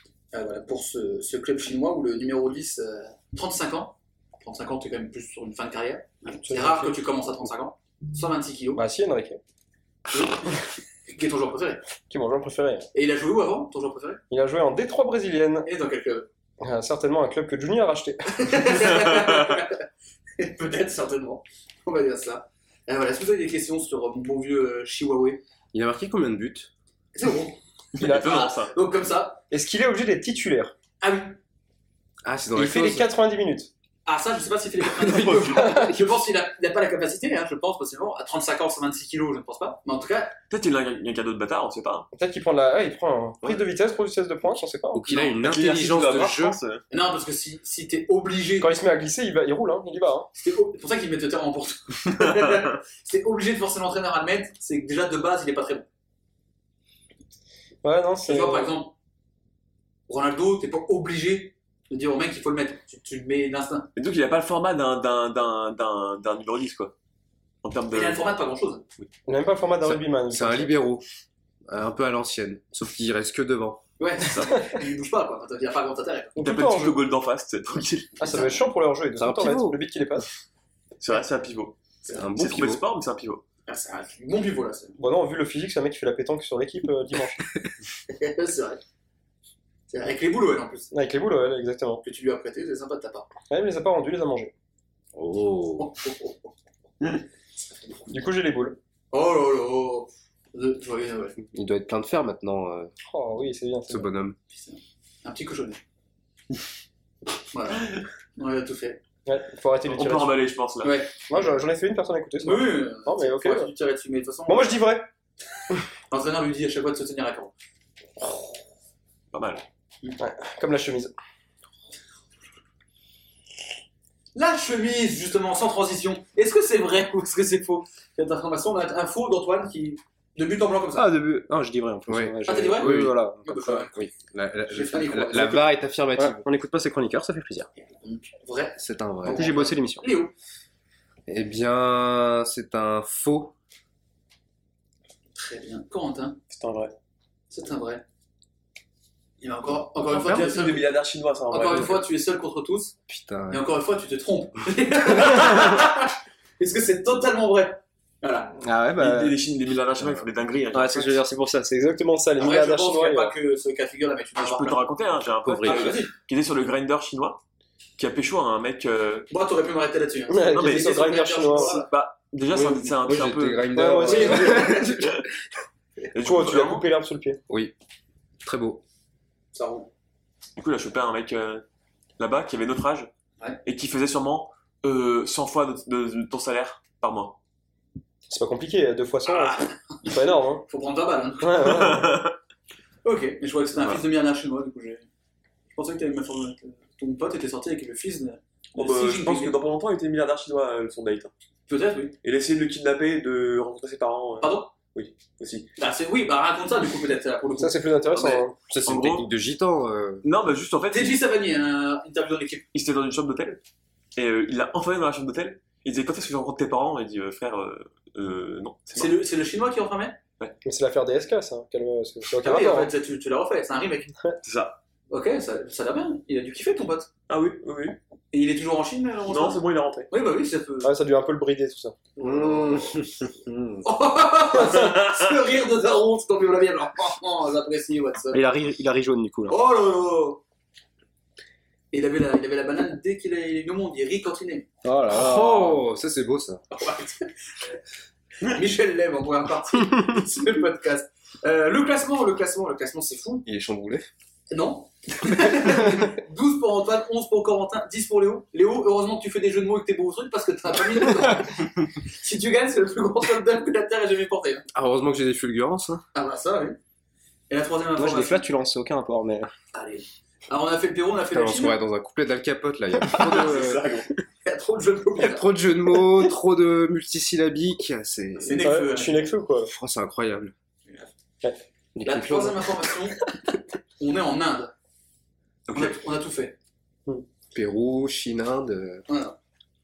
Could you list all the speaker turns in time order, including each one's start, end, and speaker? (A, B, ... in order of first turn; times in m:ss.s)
0:00.3-0:08.8 A
0:06.5-0:06.9 B
0:08.7-0:09.4 B
0:10.1-0:11.8 A
0:12.1-0:12.9 B
0:12.9-0:14.2 A
0:14.3-0:15.7 B
0:15.6-0:16.3 A
0:16.6-0:18.9 B
0:18.3-0:19.8 A
0:20.4-0:25.4 A
0:25.7-0:26.7 C
0:27.1-0:29.4 A
0:27.9-0:28.7 D
0:29.5-0:30.7 B
0:31.0-0:31.4 A
0:32.2-0:33.1 C
0:32.5-0:33.7 B
0:34.0-0:40.4 A
0:35.2-0:35.5 B
0:40.5-0:42.1 D
0:42.1-0:45.0 B
0:44.9-0:46.6 C
0:45.4-0:46.8 D
0:46.9-0:48.8 A
0:48.6-0:50.3 B
0:50.3-0:55.8 A
0:57.8-0:58.7 B
0:58.2-0:58.9 A
1:00.1-1:03.9 A
1:04.0-1:06.9 D
1:07.6-1:08.3 D
1:07.9-1:08.8 A
1:09.3-1:10.7 B
1:09.8-1:11.0 C
1:11.7-1:13.8 C
1:14.0-1:16.4 A
1:14.3-1:14.6 D
1:16.4-1:17.0 B
1:16.4-1:18.2 D
1:18.2-1:20.3 B
1:18.2-1:18.6 A
1:19.2-1:19.8 C
1:21.0-1:21.8 D
1:22.1-1:22.8 C
1:22.4-1:23.4 D
1:23.7-1:25.0 A
1:25.0-1:27.4 B
1:28.1-1:28.8 A
1:29.9-1:30.9 A
1:30.9-1:32.0 B
1:32.0-1:33.3 A
1:33.5-1:34.5 B
1:35.1-1:35.9 C
1:35.8-1:36.5 A
1:38.1-1:38.8 B
1:39.1-1:41.4 A
1:41.5-1:42.9 C
1:43.1-1:44.1 B
1:43.9-1:44.4 C
1:44.5-1:45.8 A
1:47.5-1:49.0 A
1:49.2-1:50.4 B
1:49.9-1:51.0 D
1:50.8-1:51.2 A
1:51.3-1:53.7 B
1:52.4-1:54.8 A
1:54.5-1:55.1 B
1:56.1-1:57.5 A
1:59.3-1:59.6 D
2:00.2-2:01.1 B
2:04.3-2:11.1 A
2:10.9-2:13.9 E
2:12.1-2:16.4 C
2:12.4-2:14.0 A
2:14.7-2:15.7 A
2:16.2-2:17.7 E
2:18.0-2:20.3 A
2:18.8-2:19.5 C
2:19.3-2:20.1 E
2:21.3-2:23.5 C
2:25.3-2:26.4 A
2:26.5-2:26.9 D
2:27.5-2:28.0 A
2:29.4-2:30.9 A
2:30.0-2:32.0 D
2:31.5-2:32.9 A
2:33.1-2:33.6 C
2:33.5-2:38.5 A
2:38.6-2:39.3 E
2:39.0-2:41.2 D
2:40.7-2:41.8 E
2:41.8-2:43.3 B
2:42.4-2:44.8 A
2:44.4-2:47.4 D
2:45.4-2:46.0 C
2:45.6-2:46.1 A
2:48.0-2:49.3 D
2:49.3-2:51.9 A
2:50.3-2:51.8 B
2:50.5-2:53.7 D
2:52.5-2:55.2 C
2:53.7-2:54.8 B
2:54.1-2:54.8 A
2:54.4-2:55.2 D
2:56.1-2:56.8 D
2:56.2-2:57.4 B
2:57.5-2:57.7 C
2:58.4-2:58.8 C
2:59.5-2:59.9 A
3:00.6-3:01.6 D
3:02.2-3:03.1 D
3:03.6-3:07.4 D
3:08.3-3:10.6 B
3:09.2-3:12.0 A
3:11.4-3:12.2 B
3:11.6-3:12.3 D
3:13.0-3:15.1 A
3:13.7-3:14.0 D
3:15.8-3:19.5 A
3:18.8-3:21.3 D
3:21.7-3:22.2 A
3:22.2-3:25.7 D
3:24.4-3:24.7 A
3:25.8-3:28.4 A
3:27.6-3:28.6 B
3:28.7-3:30.2 C
3:28.8-3:29.3 D
3:30.2-3:31.2 D
3:30.9-3:32.6 A
3:32.7-3:33.6 D
3:34.2-3:39.1 D
3:38.9-3:40.2 A
3:40.6-3:42.9 B
3:42.4-3:44.1 A
3:44.4-3:44.8 D
3:45.1-3:47.1 A
3:47.3-3:48.0 D
3:48.3-3:50.9 A
3:49.3-3:50.1 D
3:50.8-3:52.0 B
3:52.2-3:52.9 A
3:52.2-3:53.8 C
3:53.8-3:58.4 A
3:54.7-3:55.2 D
3:58.3-3:59.6 E
3:59.5-4:00.4 A
4:01.9-4:04.7 A
4:04.8-4:05.8 E
4:05.1-4:06.6 C
4:06.7-4:07.3 A
4:08.4-4:13.4 A
4:13.4-4:14.1 C
4:14.5-4:24.6 A
4:24.7-4:26.0 C
4:26.1-4:26.8 A
4:27.5-4:28.4 A
4:28.0-4:29.5 E
4:29.7-4:31.8 A
4:31.3-4:33.8 C
4:33.1-4:34.1 D
4:34.4-4:35.4 A
4:35.2-4:38.8 C
4:38.4-4:39.3 A
4:38.6-4:39.7 B
4:39.6-4:40.5 C
4:42.0-4:42.7 C
4:42.0-4:43.2 A
4:44.0-4:44.7 A
4:45.7-4:46.0 D
4:45.7-4:46.5 A
4:47.5-4:49.0 C
4:49.1-4:49.4 A